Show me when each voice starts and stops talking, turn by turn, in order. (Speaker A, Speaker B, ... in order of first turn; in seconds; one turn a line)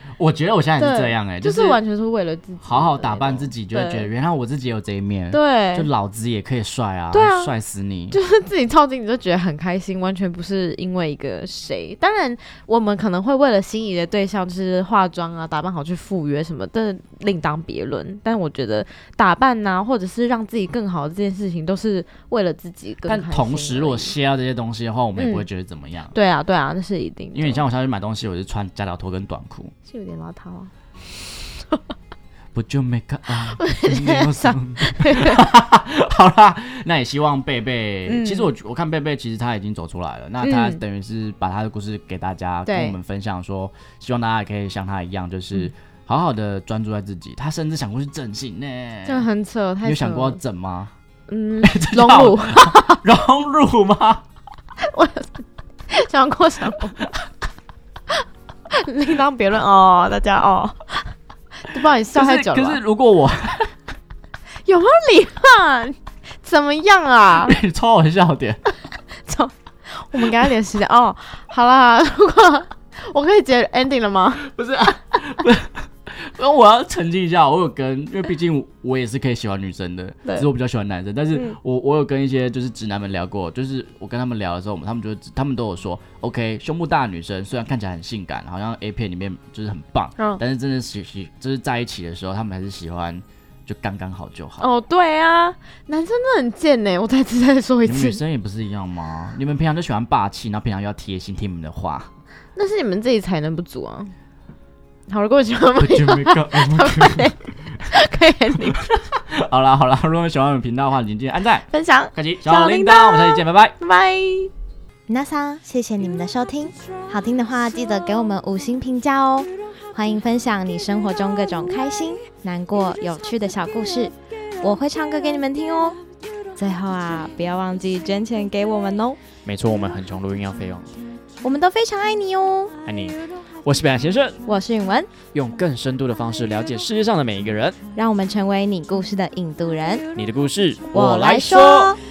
Speaker A: 0.2-1.8
Speaker B: 0.8-4.1
Speaker A: 2.6-8.2
Speaker B: 5.3-5.9
Speaker B: 7.1-7.5
Speaker B: 8.1-24.1
Speaker A: 23.1-26.1
Speaker B: 25.2-25.4
Speaker B: 26.1-27.6
Speaker A: 27.3-29.7
Speaker B: 29.9-30.7
Speaker A: 32.5-49.3
Speaker B: 33.6-35.5
Speaker B: 38.1-38.5
Speaker B: 40.4-40.8
Speaker B: 42.7-43.0
Speaker B: 49.0-50.4
Speaker A: 49.8-50.9
Speaker B: 51.3-53.0
Speaker A: 51.6-54.2
Speaker B: 54.8-57.0
Speaker B: 58.8-61.1
Speaker B: 61.7-62.8
Speaker A: 62.1-63.7
Speaker B: 64.7-67.6
Speaker A: 67.4-68.6
Speaker B: 69.3-74.5
Speaker A: 74.4-94.7
Speaker B: 94.6-98.2
Speaker A: 97.8-102.1
Speaker B: 102.5-104.1
Speaker B: 105.1-108.9
Speaker A: 105.8-107.4
Speaker A: 108.9-113.8
Speaker B: 111.7-114.5
Speaker C: 115.1-126.0
Speaker C: 126.6-129.2
Speaker A: 129.4-131.0
Speaker C: 131.4-132.8
Speaker A: 132.9-134.4
Speaker C: 134.4-135.2
Speaker A: 135.3-137.8
Speaker C: 137.9-140.1
Speaker A: 140.2-142.0
Speaker C: 140.9-142.0